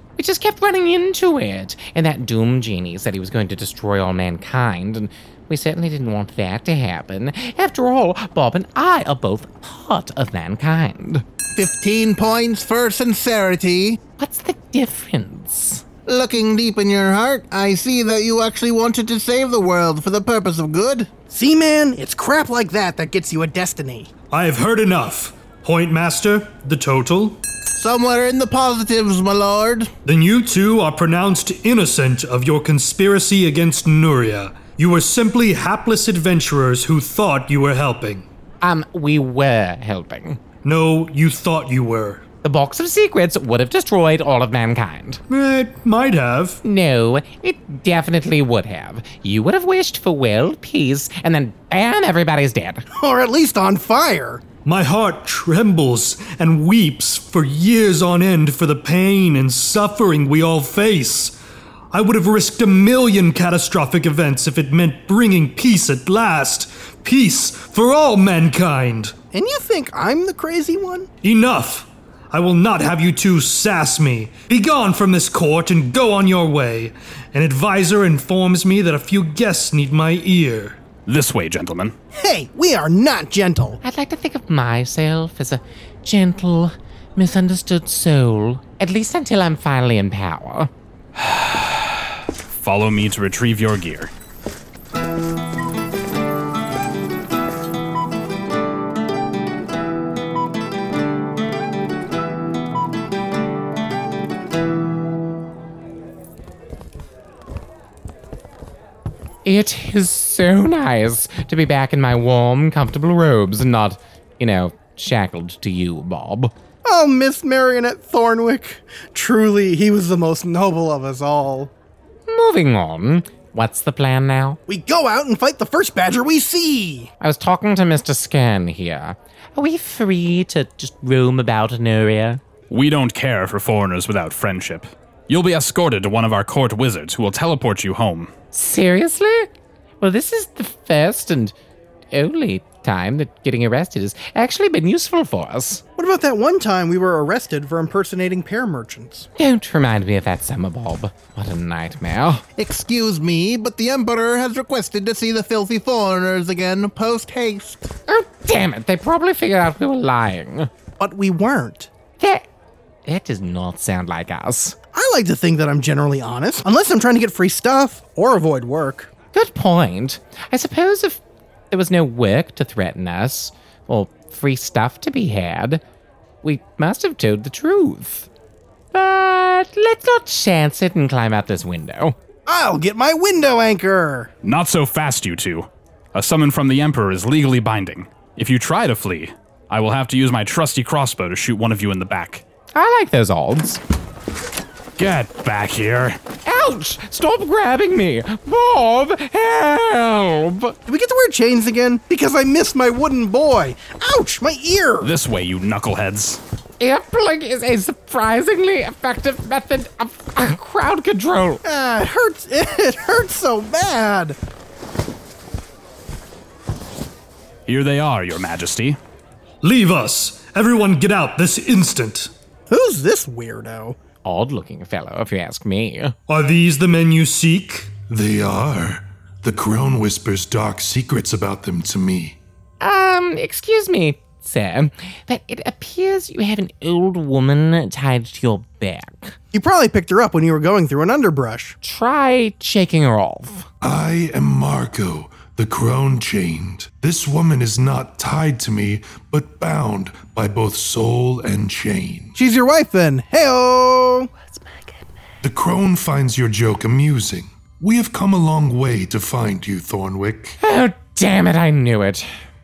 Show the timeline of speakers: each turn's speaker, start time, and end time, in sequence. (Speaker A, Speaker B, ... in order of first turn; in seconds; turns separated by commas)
Speaker A: 0.2-11.2, Speaker B: 11.5-14.0, Speaker A: 14.2-15.8, Speaker B: 16.1-21.1, Speaker C: 21.3-24.1, Speaker D: 24.3-27.4, Speaker B: 27.8-29.9, Speaker D: 30.1-38.2, Speaker A: 38.6-40.4, Speaker D: 40.6-42.2, Speaker A: 42.4-45.2, Speaker D: 45.3-46.6, Speaker A: 46.6-52.8, Speaker C: 53.0-54.4, Speaker D: 54.6-61.3, Speaker D: 61.9-69.1, Speaker C: 69.3-71.1, Speaker D: 71.2-80.8, Speaker E: 81.0-81.9, Speaker C: 82.1-83.8, Speaker A: 83.8-90.7, Speaker E: 91.2-94.1, Speaker A: 109.4-116.5, Speaker C: 116.8-121.7, Speaker A: 122.3-124.6, Speaker C: 124.7-127.1, Speaker A: 127.2-132.4, Speaker E: 132.7-138.3, Speaker A: 138.5-139.5, Speaker A: 140.0-141.5, Speaker A: 142.1-145.8, Speaker C: 146.0-149.3, Speaker A: 149.4-152.4, Speaker B: 152.6-157.8, Speaker A: 158.1-160.7, Speaker C: 161.0-161.9, Speaker A: 162.2-162.4, Speaker A: 163.1-164.8, Speaker C: 164.9-169.1, Speaker A: 169.3-175.8, Speaker A: 176.4-178.3, Speaker A: 178.9-182.2, Speaker C: 182.4-184.3, Speaker E: 184.4-192.4, Speaker A: 192.7-193.8, Speaker E: 195.0-196.2, Speaker A: 196.4-200.8, Speaker C: 200.9-205.1, Speaker E: 205.0-206.4, Speaker A: 206.8-211.6, Speaker C: 211.6-214.3, Speaker E: 217.7-219.0, Speaker D: 219.6-222.3, Speaker C: 222.7-224.0, Speaker A: 224.2-226.1, Speaker D: 226.3-227.9, Speaker F: 228.1-232.4, Speaker A: 232.8-239.4, Speaker C: 239.5-241.8, Speaker A: 241.8-243.7, Speaker F: 243.8-252.3, Speaker C: 252.3-254.3, Speaker F: 255.4-260.6, Speaker A: 260.6-262.3